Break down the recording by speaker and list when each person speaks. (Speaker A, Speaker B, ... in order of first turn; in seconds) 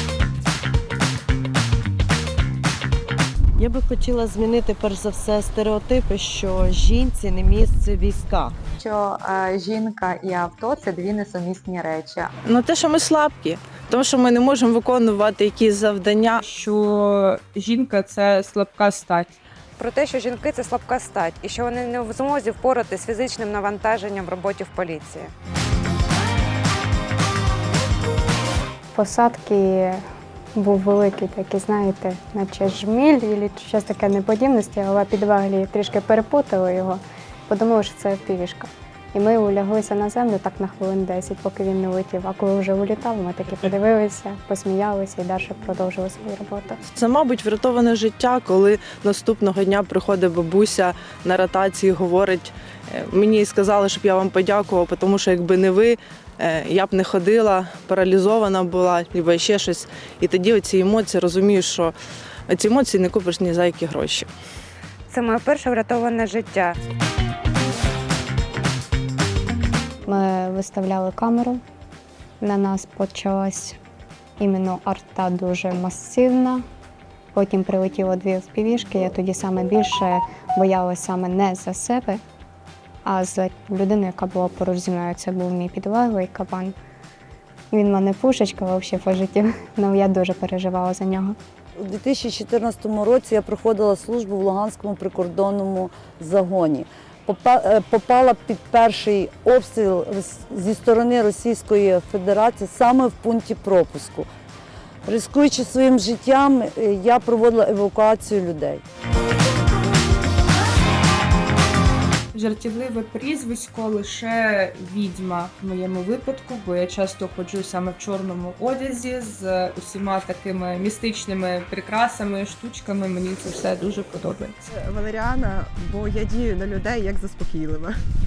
Speaker A: 3.6-8.6
Speaker B: 8.8-12.3
Speaker C: 10.4-11.4, 124.7-127.9
Speaker D: 12.4-16.4, 47.0-61.9, 62.5-64.3
Speaker E: 16.4-19.3, 112.3-124.7
Speaker F: 19.8-25.3, 65.1-66.8
Speaker G: 28.9-30.0, 30.5-46.8, 70.1-71.6, 72.4-73.8, 74.4-76.6, 77.3-82.2, 83.0-86.7, 87.7-91.3
Speaker H: 91.8-104.3, 105.0-108.8